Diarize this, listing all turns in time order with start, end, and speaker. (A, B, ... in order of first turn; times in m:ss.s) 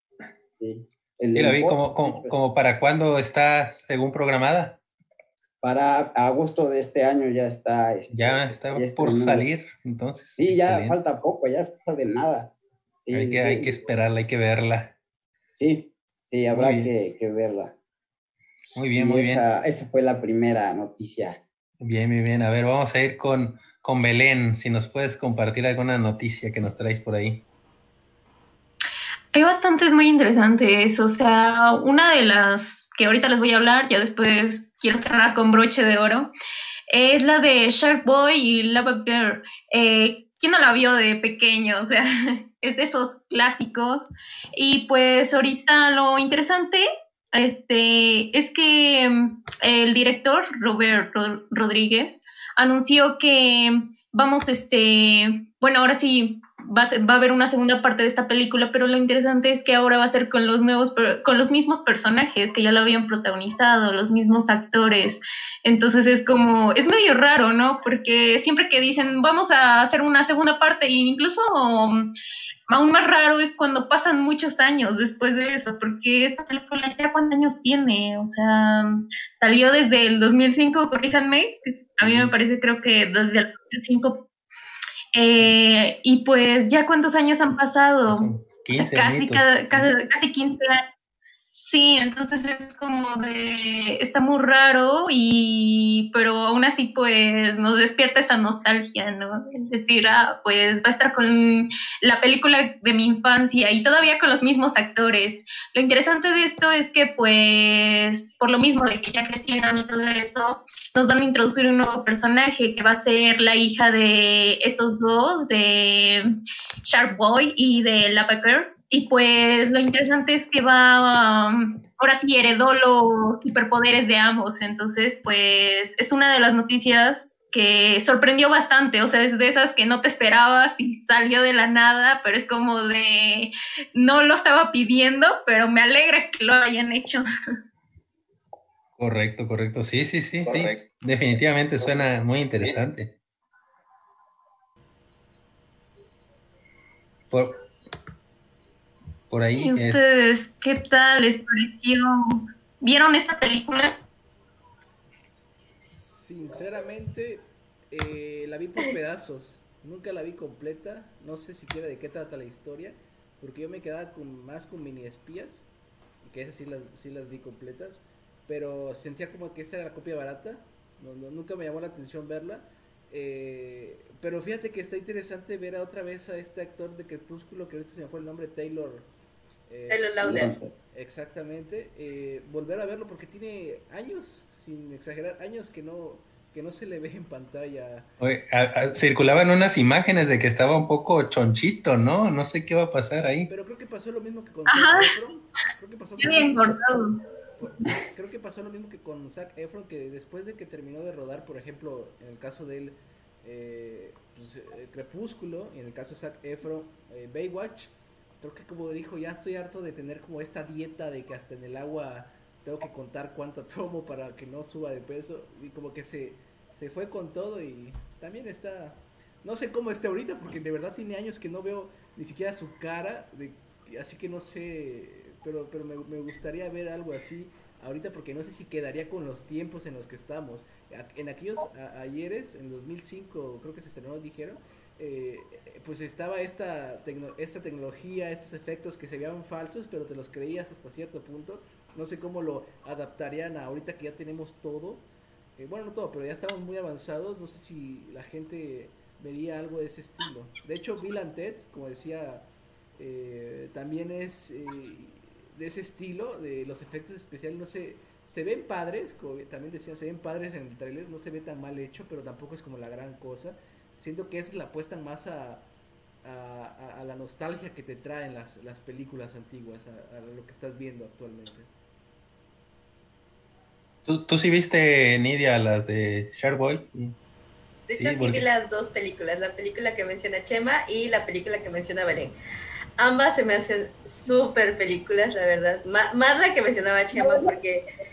0:00.6-0:02.3 A
0:01.4-0:04.8 B
0:05.6-0:09.5 A
0:08.1-0:11.0 B
0:10.4-0:12.5 A
0:13.1-0:13.7 A
0:13.1-0:14.9 B
0:15.6-0:17.7 A
0:16.5-0:16.9 B
0:18.8-0:19.4 B
0:18.9-0:21.4 A
0:21.8-0:27.4 B
0:29.3-0:36.3 C
0:36.9-1:12.1 C
1:12.7-1:24.2 C
1:22.0-1:22.3 B
1:25.2-1:30.8 C
1:28.1-1:29.9 B
1:31.6-1:56.3 C
1:56.8-2:17.2 C
2:19.0-2:23.1 B
2:29.3-2:30.0 B
2:29.6-2:33.9 C
2:35.9-2:45.6 D
2:46.2-2:59.1 D
2:59.7-3:08.1 D
2:59.9-3:00.5 E
3:00.2-3:00.7 A
3:08.2-3:13.5 B
3:13.5-3:16.7 D
3:14.7-3:15.1 C
3:16.2-3:17.2 C
3:17.6-4:05.1 D
4:05.6-4:25.7 D
4:26.2-4:31.7 D
4:34.1-4:37.2 B
4:37.9-4:42.3 E
4:38.0-4:38.5 B
4:43.0-4:47.8 E